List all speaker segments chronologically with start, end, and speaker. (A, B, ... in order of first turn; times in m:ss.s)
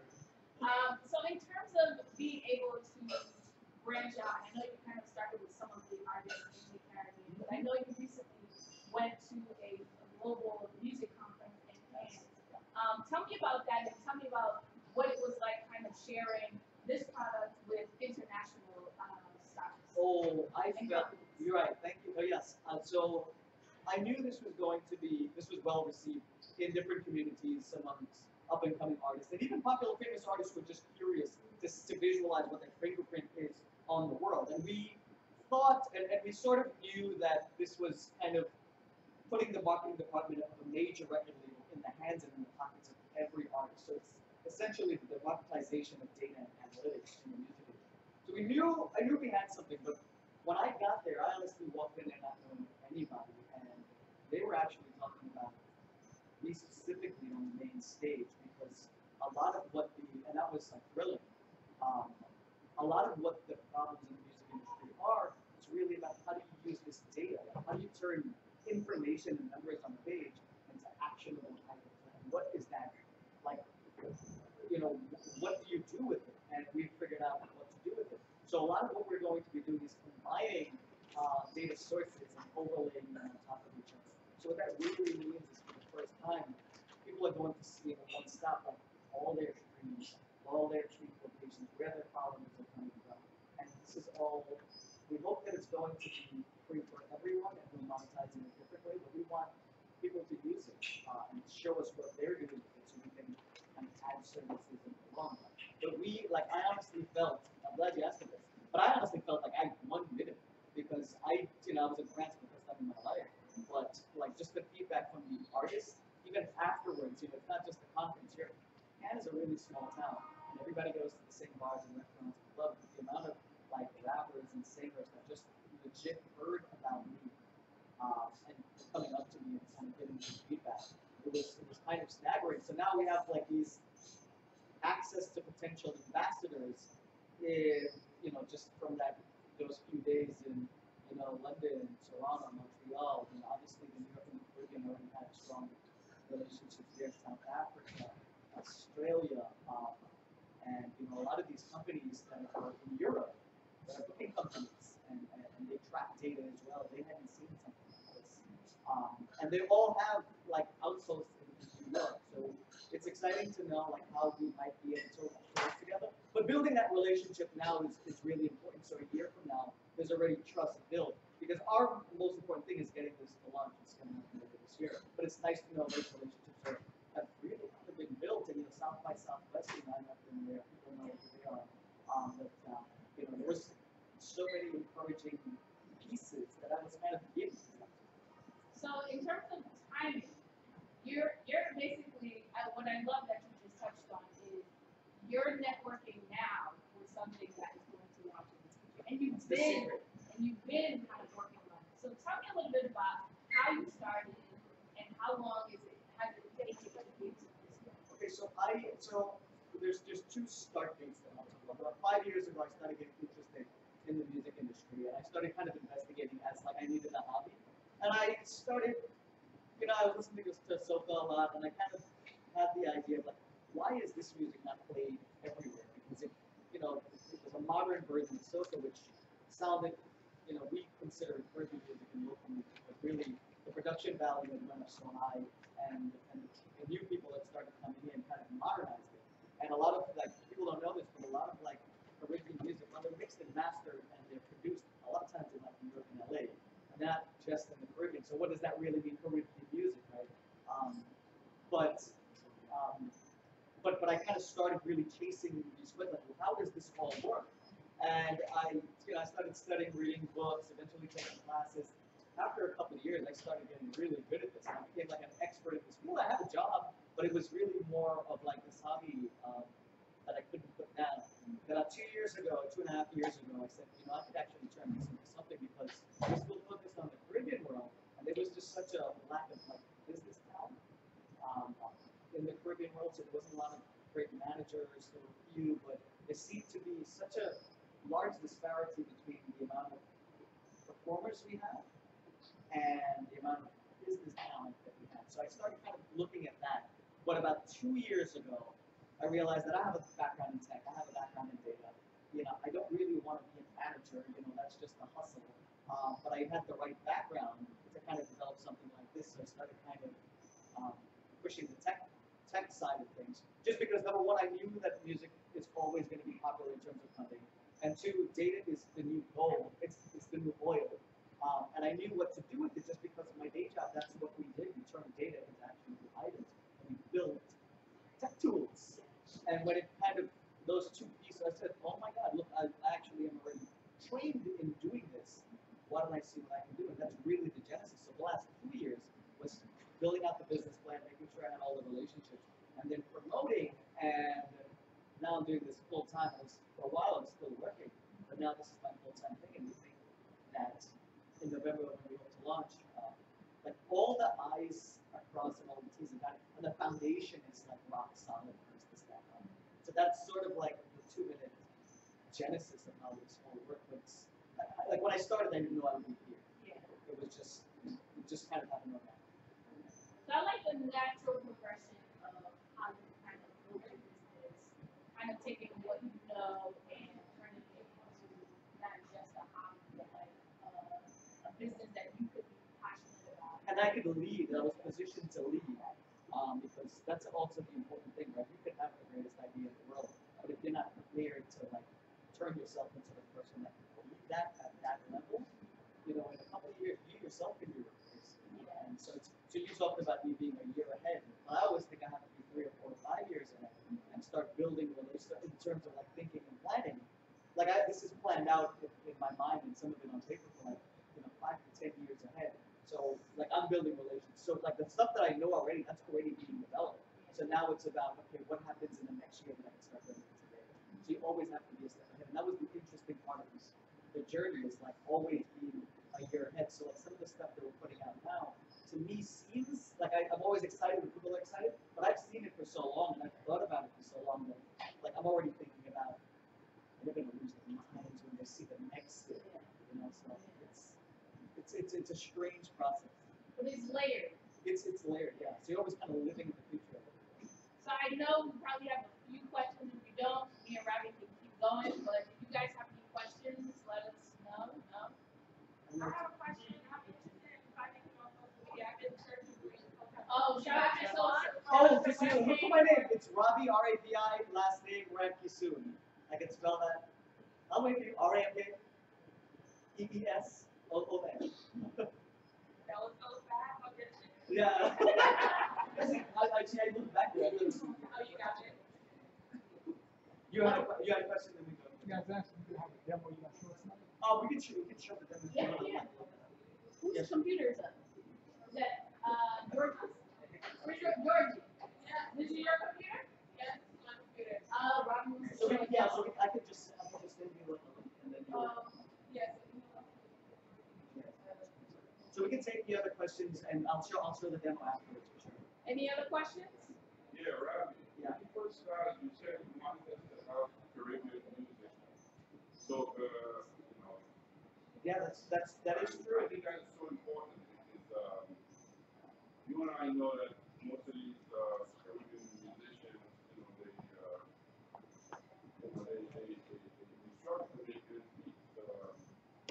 0:00.6-0:21.5 A
0:07.3-0:07.6 B
0:11.9-0:12.6 B
0:19.9-0:23.3 B
0:23.8-0:38.5 B
0:39.3-0:55.6 B
0:56.4-1:13.6 B
1:14.6-2:07.3 B
2:08.0-2:13.8 B
2:14.8-2:25.8 B
2:26.3-2:30.0 B
2:30.6-3:08.1 B
3:08.7-3:10.4 A
3:11.0-3:14.7 A
3:15.2-3:28.0 A
3:19.3-3:20.0 B
3:28.1-3:39.1 B
3:39.8-4:11.1 B
4:11.7-4:12.1 B
4:12.7-4:13.1 B
4:13.8-4:29.7 B
4:30.2-4:40.8 B
4:41.4-4:50.0 B
4:50.8-4:51.9 B
4:52.7-5:10.2 B
5:10.7-5:27.6 B
5:28.2-6:01.6 B
6:02.3-6:06.4 B
6:06.6-6:06.9 A
6:07.0-6:09.2 B
6:10.2-6:23.9 A
6:23.6-6:35.5 B
6:36.0-7:16.2 B
6:38.5-6:38.8 A
6:57.2-6:57.6 A
7:17.0-7:20.9 B
7:19.4-7:19.6 A
7:20.3-7:20.6 A
7:21.5-7:23.2 B
7:23.5-7:24.4 A
7:24.6-7:27.4 B
7:27.8-7:35.2 A
7:35.8-7:36.2 B
7:36.0-7:42.9 C
7:40.3-7:43.0 A
7:41.6-7:47.1 B
7:47.7-7:48.8 B
7:49.9-7:52.1 B
7:52.8-7:55.7 C
7:54.5-7:58.2 B
7:57.3-7:59.6 C
8:00.5-8:02.2 B
8:02.0-8:04.1 D
8:04.2-8:06.5 B
8:05.5-8:06.0 A
8:07.0-8:08.0 A
8:07.1-8:07.4 B
8:08.7-8:10.2 A
8:09.7-8:11.2 B
8:10.8-8:11.7 A
8:12.0-8:12.3 C
8:12.3-8:13.3 A
8:13.5-8:14.7 C
8:14.7-8:16.3 A
8:15.4-8:18.9 B
8:19.3-8:20.8 C
8:21.1-8:21.3 B
8:21.4-8:21.7 C
8:22.3-8:25.6 B
8:25.8-8:26.9 A
8:27.3-8:32.1 E
8:32.8-8:34.3 E
8:35.0-8:36.6 B
8:35.8-8:38.6 E
8:39.6-8:44.4 E
8:45.8-8:49.2 E